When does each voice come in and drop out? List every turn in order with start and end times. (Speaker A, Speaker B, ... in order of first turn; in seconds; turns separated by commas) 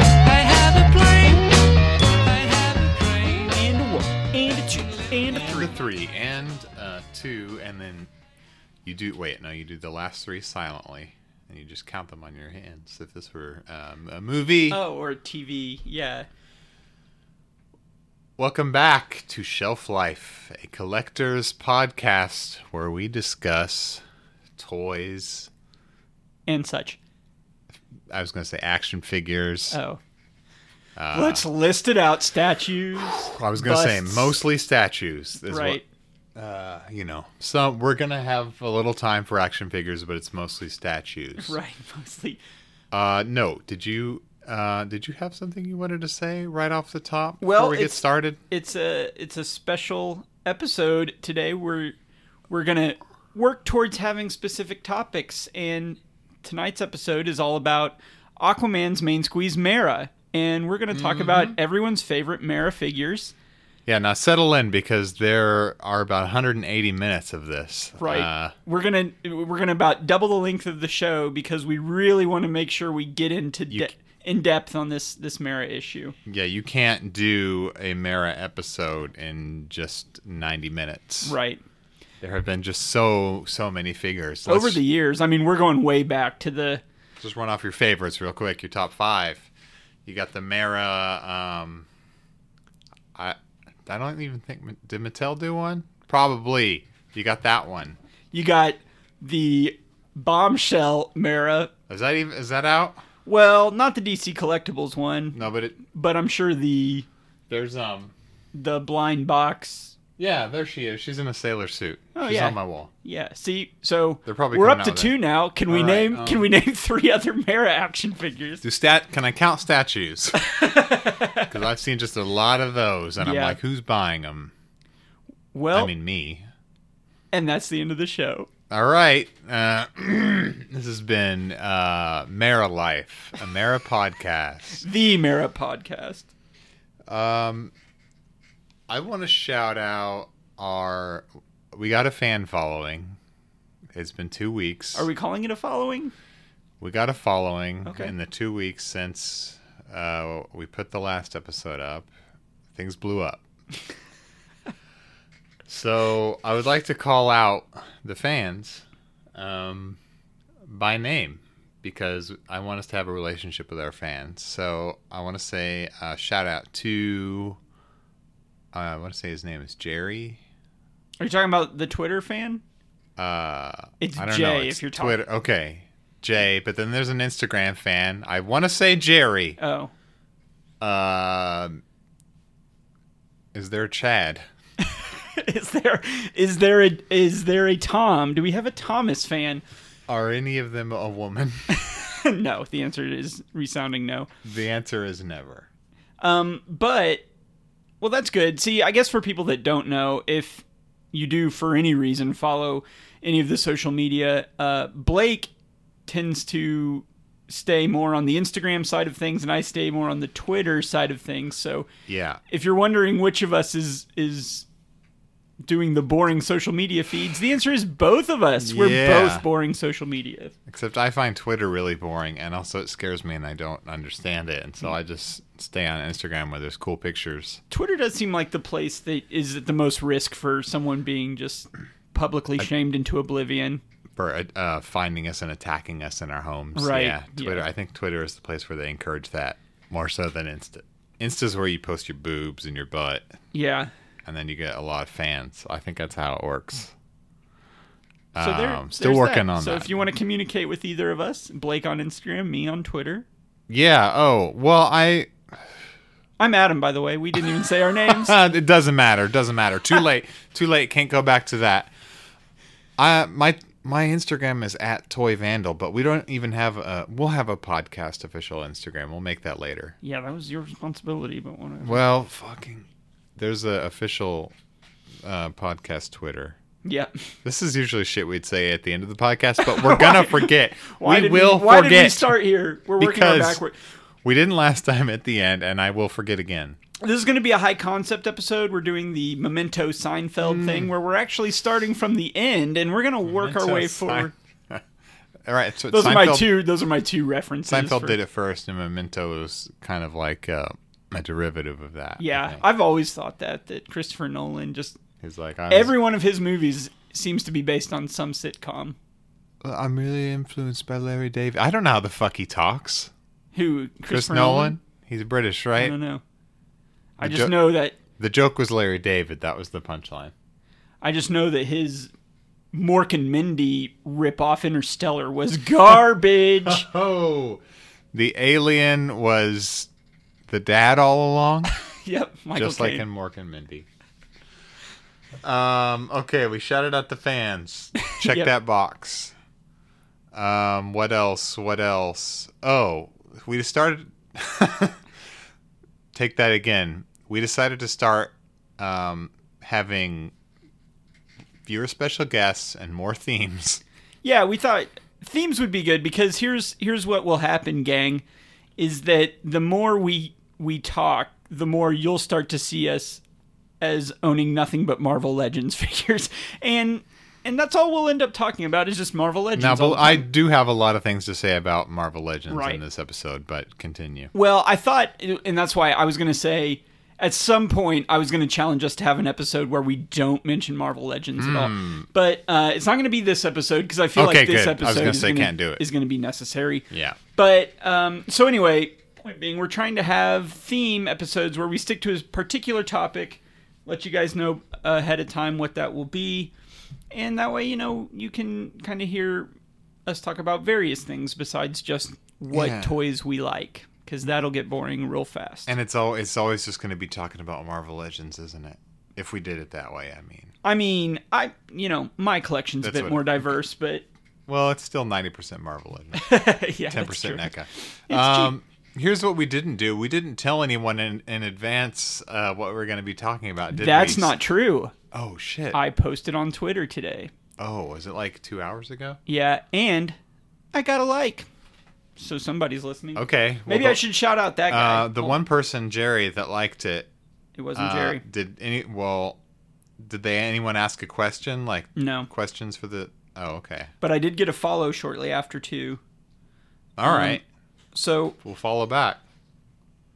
Speaker A: 0.2-1.5, Speaker A: 2.2-3.6, Speaker B: 3.5-5.7, Speaker C: 5.3-8.1, Speaker C: 8.8-14.8, Speaker B: 14.7-16.3, Speaker C: 18.4-24.0, Speaker C: 24.6-25.5, Speaker B: 26.5-27.0, Speaker C: 28.1-29.8, Speaker B: 29.7-30.0, Speaker C: 31.0-31.4, Speaker B: 31.1-34.4, Speaker C: 33.4-35.8, Speaker B: 35.5-35.9, Speaker C: 36.4-41.6, Speaker B: 41.4-42.4, Speaker C: 42.9-48.4, Speaker B: 47.4-52.0, Speaker B: 52.5-63.3, Speaker C: 60.9-61.6, Speaker C: 63.9-68.5, Speaker B: 68.0-76.2, Speaker C: 76.3-81.3, Speaker B: 81.2-81.6, Speaker C: 82.2-84.8, Speaker B: 84.5-86.8, Speaker C: 87.2-89.5, Speaker C: 90.0-91.9, Speaker C: 93.2-98.0, Speaker B: 98.3-101.7, Speaker C: 101.9-103.0, Speaker B: 103.3-107.1, Speaker C: 105.3-105.8, Speaker C: 107.5-108.1, Speaker B: 108.5-110.0, Speaker C: 110.2-112.9, Speaker B: 112.1-118.6, Speaker C: 114.3-116.5, Speaker C: 118.6-120.4, Speaker B: 120.4-121.5, Speaker C: 121.5-124.5, Speaker B: 123.2-123.6, Speaker B: 125.5-125.9, Speaker C: 125.7-126.5, Speaker B: 127.3-128.5, Speaker C: 128.7-134.8, Speaker B: 134.8-136.3, Speaker C: 137.1-137.7, Speaker C: 138.9-143.2, Speaker C: 143.9-145.1, Speaker B: 144.9-146.1, Speaker C: 146.8-152.1, Speaker B: 147.8-148.1, Speaker C: 152.7-153.4, Speaker C: 155.7-158.8, Speaker C: 159.3-160.0, Speaker C: 160.7-167.6, Speaker C: 168.7-170.4, Speaker B: 171.2-172.6, Speaker C: 173.2-179.6, Speaker B: 174.0-175.2, Speaker B: 179.6-179.9, Speaker C: 180.8-181.8, Speaker C: 183.5-184.4, Speaker B: 184.9-189.6, Speaker C: 190.1-191.7, Speaker B: 191.7-194.3, Speaker C: 194.4-195.7, Speaker B: 196.2-197.2, Speaker B: 198.0-205.5, Speaker B: 206.1-211.9, Speaker C: 212.1-212.4, Speaker B: 212.5-214.7, Speaker B: 215.6-220.6, Speaker C: 218.6-219.4, Speaker C: 220.7-227.6, Speaker B: 227.7-233.8, Speaker C: 234.2-243.3, Speaker B: 236.8-237.7, Speaker B: 243.5-243.9, Speaker C: 244.2-246.9, Speaker C: 248.3-250.1, Speaker B: 248.4-253.3, Speaker C: 253.7-255.3, Speaker B: 256.4-258.4, Speaker C: 258.1-261.9, Speaker C: 263.0-270.0, Speaker B: 270.0-272.0, Speaker C: 271.8-272.9, Speaker C: 273.4-274.5, Speaker C: 275.2-276.6, Speaker B: 276.8-277.1, Speaker C: 277.4-282.4, Speaker B: 279.6-283.8, Speaker C: 283.0-283.6, Speaker C: 284.2-286.8, Speaker B: 287.0-294.3, Speaker C: 290.4-290.9, Speaker C: 293.2-294.8, Speaker C: 295.4-296.5, Speaker B: 295.9-298.2, Speaker C: 297.7-302.6, Speaker B: 302.2-305.0, Speaker C: 305.2-305.9, Speaker B: 305.7-309.0, Speaker C: 309.6-313.1, Speaker B: 313.5-314.8, Speaker C: 314.1-316.0, Speaker B: 315.8-316.2, Speaker B: 317.2-318.0, Speaker C: 317.2-320.3, Speaker B: 321.0-322.1, Speaker B: 322.7-326.9, Speaker C: 326.6-327.6, Speaker C: 328.1-329.9, Speaker C: 330.5-331.7, Speaker B: 332.1-333.1, Speaker C: 332.6-333.9, Speaker C: 335.4-339.3, Speaker B: 338.2-338.5, Speaker C: 340.3-345.0, Speaker C: 346.1-350.3, Speaker C: 351.7-353.8, Speaker B: 354.2-358.2, Speaker B: 358.8-363.2, Speaker B: 363.8-370.3, Speaker C: 369.6-374.3, Speaker B: 372.5-372.8, Speaker B: 374.3-396.5, Speaker C: 381.4-382.1, Speaker C: 384.1-385.8, Speaker C: 386.9-387.2, Speaker B: 397.1-399.5, Speaker B: 400.1-405.7, Speaker C: 402.5-403.0, Speaker C: 405.7-410.5, Speaker B: 410.6-414.1, Speaker C: 412.8-413.4, Speaker C: 414.5-424.4, Speaker B: 416.1-417.5, Speaker B: 418.1-418.5, Speaker B: 423.7-424.9, Speaker C: 425.1-425.8, Speaker B: 425.7-427.3, Speaker C: 427.6-429.2, Speaker B: 429.3-430.2, Speaker B: 430.7-431.5, Speaker B: 432.2-435.4, Speaker C: 433.2-434.0, Speaker C: 434.7-437.1, Speaker B: 437.6-438.2, Speaker C: 437.8-439.4, Speaker C: 440.0-443.9, Speaker B: 442.0-442.3, Speaker B: 444.0-446.0, Speaker C: 447.0-447.4, Speaker B: 447.0-447.4, Speaker B: 447.9-448.4, Speaker C: 448.4-449.2